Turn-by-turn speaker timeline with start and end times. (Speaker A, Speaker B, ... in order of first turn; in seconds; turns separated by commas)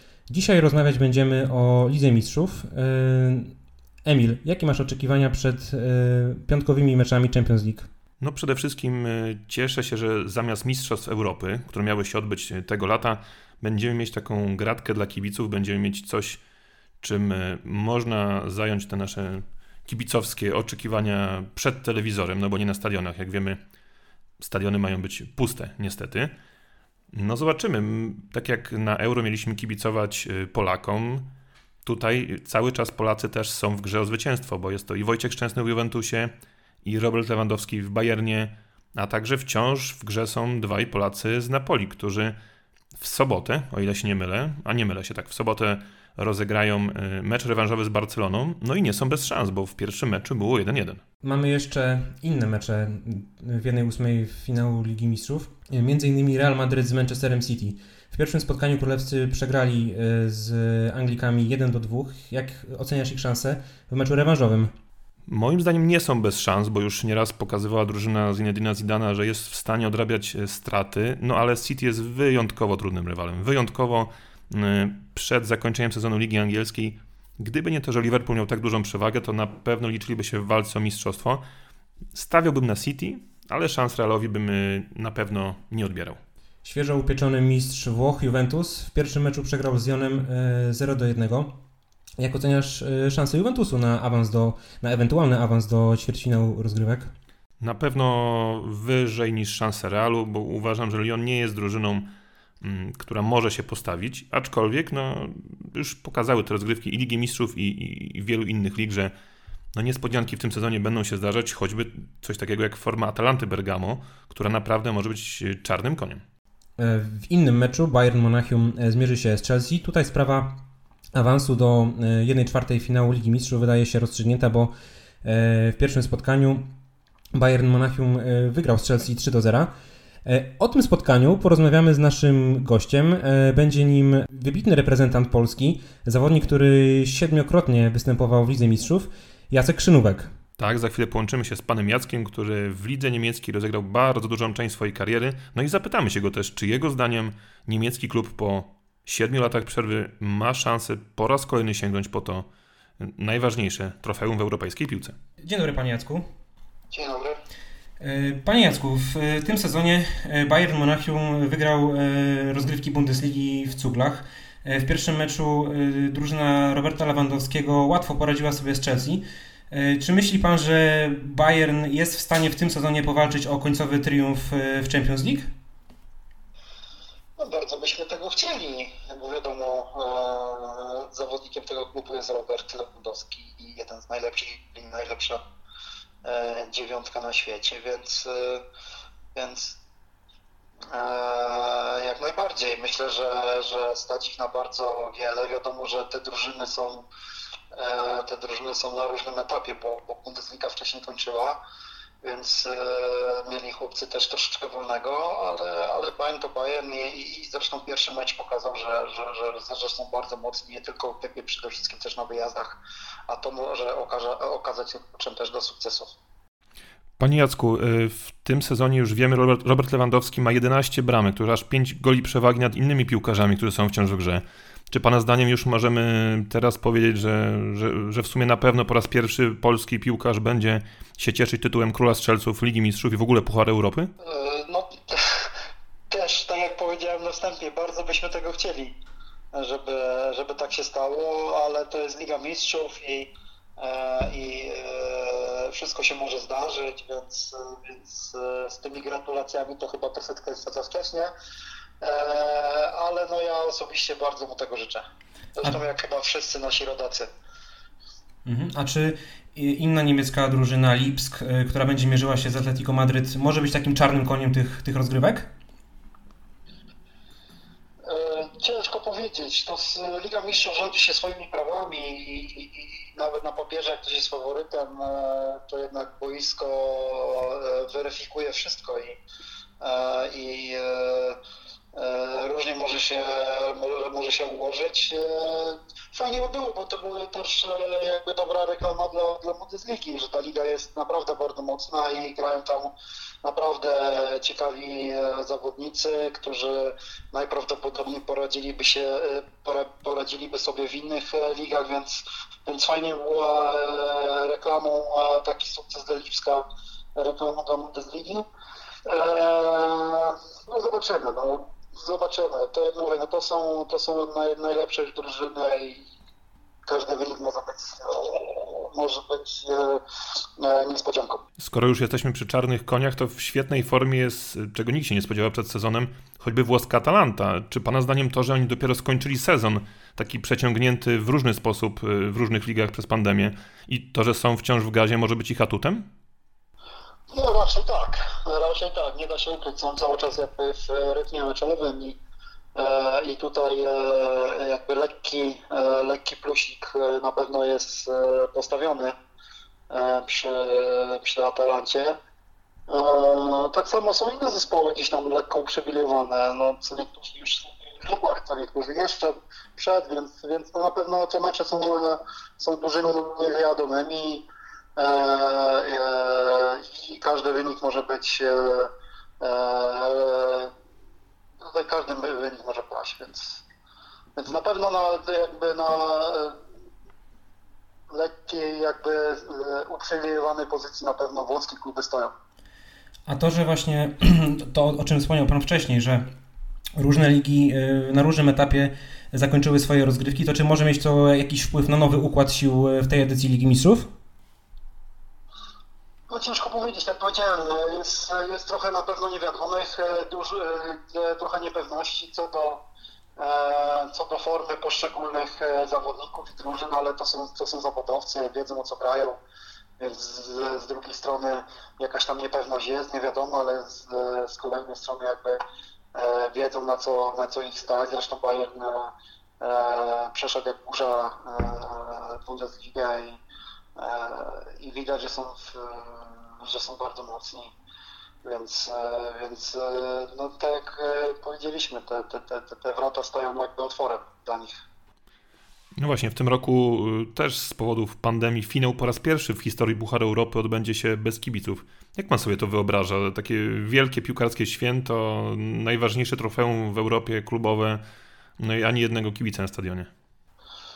Speaker A: 0.3-7.9, Speaker B: 8.2-16.4, Speaker B: 17.0-23.6, Speaker B: 24.4-26.3, Speaker B: 27.1-31.3, Speaker B: 31.8-36.3, Speaker B: 36.9-42.4, Speaker B: 43.0-51.0, Speaker A: 51.2-64.7, Speaker B: 65.3-81.4, Speaker B: 82.1-86.2, Speaker A: 86.6-91.5, Speaker A: 92.2-97.1, Speaker B: 97.6-102.1, Speaker B: 102.6-109.1, Speaker B: 109.8-116.2, Speaker A: 116.8-120.6, Speaker A: 121.1-124.7, Speaker A: 125.2-126.7, Speaker A: 127.3-129.7, Speaker A: 130.2-140.3, Speaker B: 140.6-152.5, Speaker B: 153.0-155.2, Speaker A: 155.4-156.3, Speaker C: 156.9-157.4, Speaker A: 158.0-175.5, Speaker C: 177.4-185.4, Speaker C: 186.2-188.6, Speaker C: 189.3-189.8, Speaker C: 190.9-197.1, Speaker C: 197.7-201.6, Speaker C: 202.2-212.8, Speaker C: 213.3-216.1, Speaker B: 217.2-234.1, Speaker C: 234.2-235.4, Speaker C: 236.1-239.0, Speaker C: 239.5-251.3, Speaker C: 252.0-255.0, Speaker C: 255.6-257.3, Speaker A: 258.4-265.5, Speaker C: 268.0-279.2, Speaker C: 279.8-281.4, Speaker C: 281.9-306.6, Speaker C: 307.2-308.4, Speaker C: 309.1-316.1, Speaker C: 316.9-320.0, Speaker C: 320.6-321.4, Speaker B: 321.6-336.1, Speaker C: 337.3-342.2, Speaker C: 342.8-349.1, Speaker C: 349.9-352.2, Speaker C: 352.9-370.7, Speaker C: 371.7-373.6, Speaker C: 374.4-376.5, Speaker C: 378.1-382.3, Speaker A: 383.3-386.3, Speaker A: 387.0-394.1, Speaker C: 396.3-402.8, Speaker C: 403.4-409.4, Speaker C: 410.0-415.6, Speaker C: 416.1-423.4, Speaker C: 424.0-427.7, Speaker C: 428.4-434.8, Speaker B: 436.0-448.0, Speaker B: 448.6-450.1